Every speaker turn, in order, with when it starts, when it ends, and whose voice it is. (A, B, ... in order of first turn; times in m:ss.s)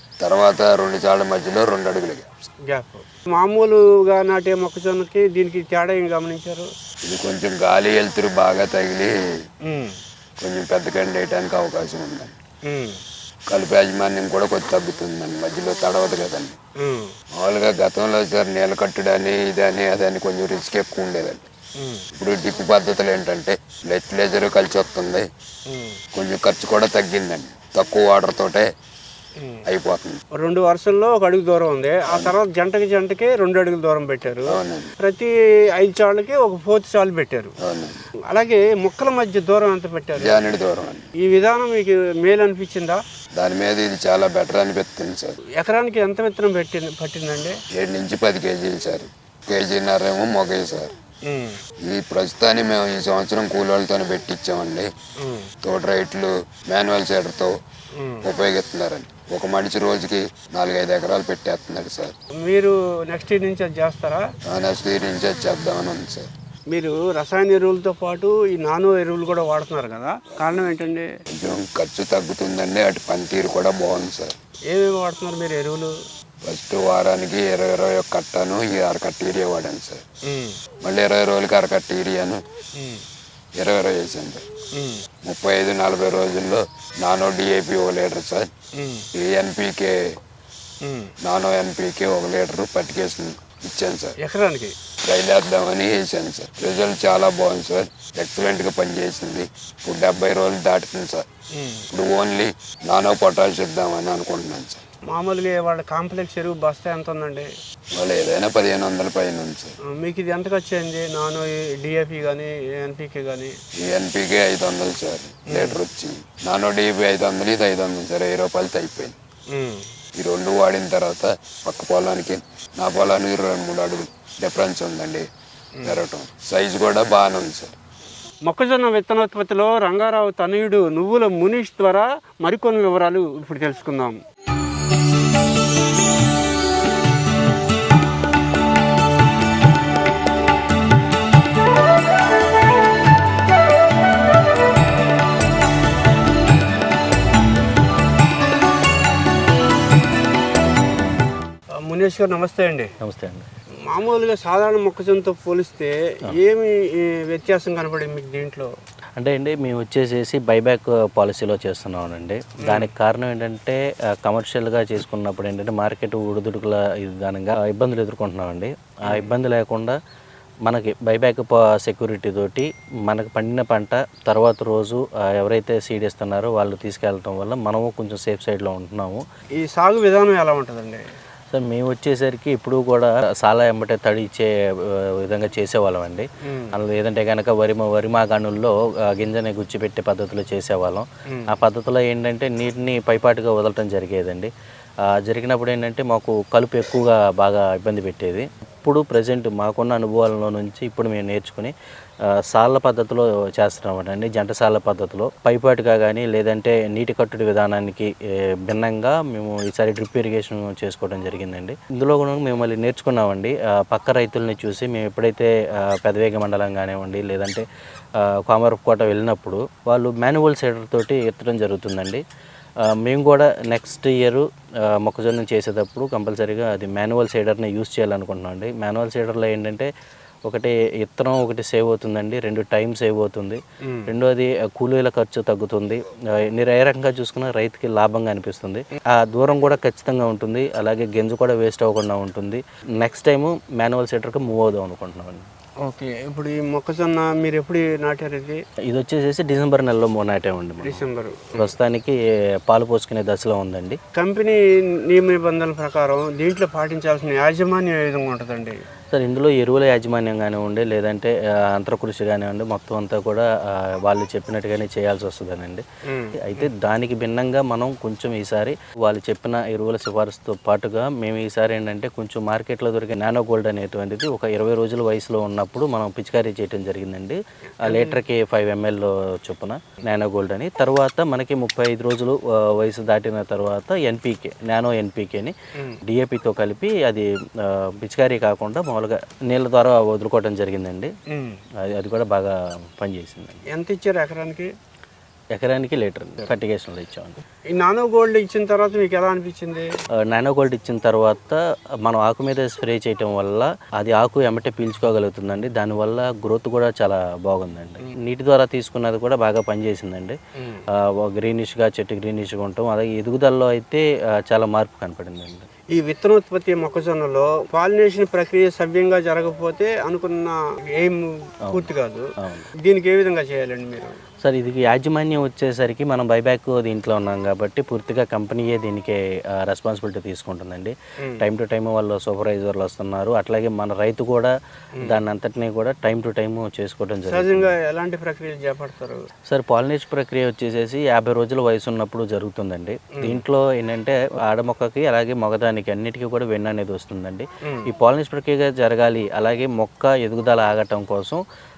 0:00.2-0:02.3 A
0:02.7-0:06.7 B
0:07.0-0:09.1 A
0:09.6-0:10.0 B
0:10.4-0:12.3 A
0:12.6-0:13.0 B
0:13.5-0:16.6 A
0:16.8-0:17.1 B
0:17.3-0:21.5 A
0:21.8-0:22.0 B
0:22.1-0:25.3 A
0:25.7-0:26.0 B
0:26.1-0:28.7 A
0:29.4-0:29.6 B
0:29.6-0:30.2 A
0:30.4-0:37.5 B
0:32.1-0:32.3 A
0:34.5-0:34.9 A
0:37.6-0:38.0 A
0:38.3-0:40.4 B
0:40.2-0:41.0 A
0:41.2-0:43.0 B
0:43.4-0:45.4 A
0:45.6-0:47.6 B
0:47.7-0:50.9 A
0:51.3-0:51.6 B
0:51.8-0:54.9 A
0:55.2-0:55.5 B
0:55.6-0:57.5 A
0:58.0-0:58.3 B
0:58.2-1:02.1 A
1:02.4-1:04.2 B
1:04.5-1:06.3 A
1:06.7-1:11.1 B
1:11.3-1:14.4 A
1:14.7-1:15.9 B
1:16.4-1:20.0 A
1:20.3-1:20.6 B
1:20.8-1:22.4 A
1:22.8-1:23.0 B
1:23.6-1:24.4 A
1:24.8-1:25.0 B
1:25.2-1:28.5 A
1:28.8-1:29.1 B
1:29.1-1:30.0 A
1:30.8-1:31.1 B
1:31.2-1:34.1 A
1:34.2-1:34.7 B
1:35.0-1:41.2 A
1:41.6-1:41.9 B
1:41.9-1:44.8 A
1:45.1-1:47.5 B
1:48.0-1:49.7 A
1:49.8-1:53.5 B
1:53.8-1:59.2 A
1:55.5-1:55.8 B
1:59.5-1:59.8 B
2:00.2-2:05.2 A
2:05.8-2:07.8 A
2:08.4-2:14.2 B
2:31.8-2:32.9 B
2:33.0-2:33.5 C
2:33.9-2:38.7 B
2:39.2-2:50.0 C
2:42.6-2:42.9 B
2:50.6-2:59.2 C
2:59.6-3:01.0 B
3:01.5-3:04.5 C
3:05.1-3:14.5 C
3:06.4-3:06.7 B
3:15.1-3:21.7 C
3:22.5-3:28.1 C
3:28.6-3:37.6 C
3:38.2-3:42.2 C
3:42.9-3:49.9 C
3:50.4-4:05.4 C
3:53.8-3:54.1 B
4:05.8-4:08.6 B
4:08.9-4:11.0 C
4:10.8-4:11.7 B
4:11.6-4:12.2 C
4:12.7-4:14.0 C
4:14.2-4:18.8 B
4:19.1-4:25.8 C
4:26.1-4:26.7 B
4:26.4-4:45.5 C
4:37.8-4:38.2 B
4:46.1-4:51.1 C
4:51.3-4:51.6 B
4:51.9-4:53.6 C
4:53.7-4:54.7 B
4:55.5-4:57.4 C
4:57.7-4:59.9 B
5:00.3-5:10.4 C
5:11.0-5:15.7 C
5:15.9-5:22.2 B
5:22.4-5:22.7 C
5:22.8-5:24.1 B
5:24.4-5:37.7 C
5:37.3-5:39.2 B
5:39.5-5:51.4 C